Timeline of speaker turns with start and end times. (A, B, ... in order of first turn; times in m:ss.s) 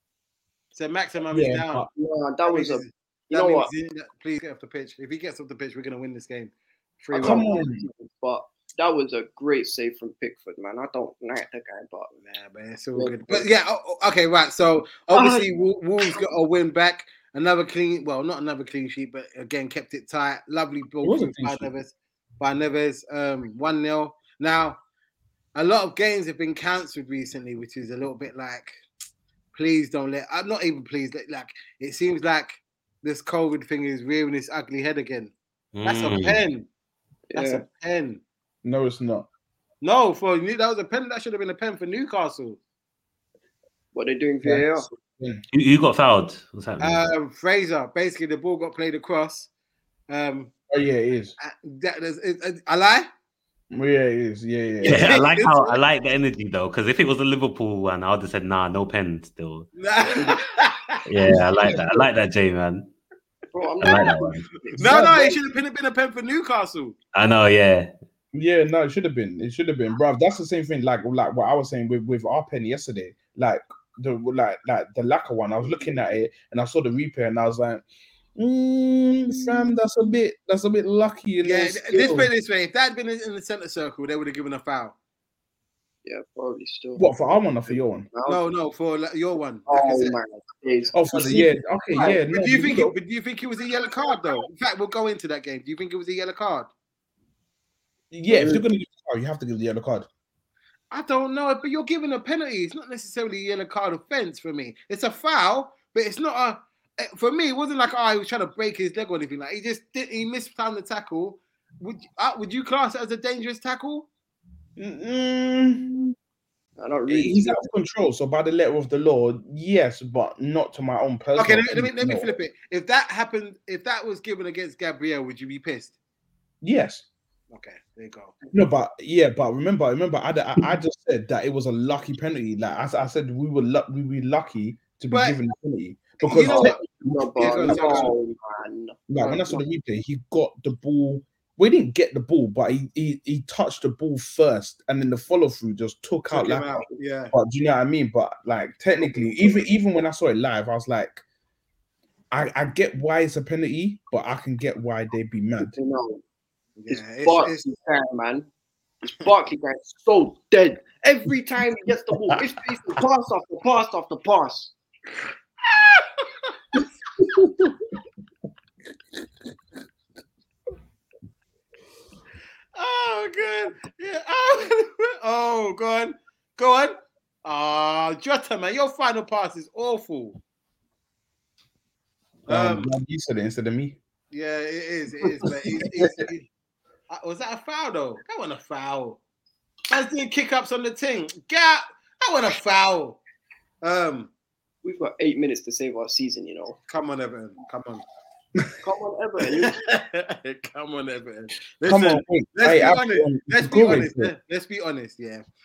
0:00.7-0:01.9 A
0:01.3-0:01.9 B
0:01.9-0:03.7 C
0:02.5-0:07.5 A
0:07.1-0:12.2 C
0:07.2-0:07.9 B
0:12.2-0:24.8 A
0:13.0-0:13.5 C
0:15.1-0:15.5 C
0:21.0-0:21.7 B
0:25.6-0:28.8 A
0:29.5-0:35.3 A
0:35.8-0:36.4 D
0:35.8-0:36.7 A
0:37.3-0:37.6 C
0:37.4-0:38.2 A
0:38.6-0:39.3 B
0:39.8-0:42.6 A
0:43.9-0:44.9 C
0:44.4-0:45.4 B
0:45.5-0:47.0 D
0:46.8-0:49.5 A
0:50.1-0:50.5 A
0:50.7-0:51.3 B
0:51.4-0:53.1 A
0:53.7-0:55.2 B
0:54.8-0:55.8 A
0:54.8-0:59.7 D
0:59.8-1:01.0 A
1:01.1-1:02.9 D
1:01.3-1:01.8 B
1:03.5-1:05.4 C
1:03.8-1:04.5 D
1:04.7-1:07.0 A
1:04.8-1:05.2 B
1:07.1-1:07.9 D
1:08.3-1:17.8 B
1:18.4-1:22.3 B
1:21.4-1:25.0 A
1:26.0-1:27.1 C
1:27.0-1:28.1 B
1:27.7-1:28.4 C
1:28.3-1:30.2 A
1:29.7-1:32.2 C
1:30.9-1:33.0 B
1:32.3-1:36.7 A
1:38.1-1:40.1 B
1:38.3-1:38.6 C
1:40.9-1:54.1 A
1:54.8-1:56.1 B
1:56.8-1:57.7 C
1:57.1-2:02.3 B
2:01.4-2:06.0 A
2:06.6-2:07.0 B
2:07.5-2:08.4 A
2:08.5-2:18.1 B
2:15.1-2:15.4 A
2:16.2-2:16.8 A
2:16.4-2:19.6 C
2:17.4-2:18.1 A
2:19.1-2:31.2 B
2:26.3-2:27.3 A
2:32.3-2:35.8 B
2:35.6-2:36.2 C
2:36.8-2:37.6 A
2:36.9-2:38.5 C
2:39.0-2:44.7 C
2:45.7-2:46.6 A
2:47.2-2:47.7 B
2:52.8-3:00.4 A
3:02.5-3:02.9 A
3:02.5-3:04.0 B
3:04.3-3:06.5 A
3:05.2-3:06.3 B
3:07.1-3:09.2 A
3:09.9-3:13.2 A
3:13.8-3:14.3 A
3:14.8-3:16.8 C
3:16.9-3:18.0 A
3:18.8-3:19.8 C
3:19.5-3:25.4 A
3:21.9-3:24.3 B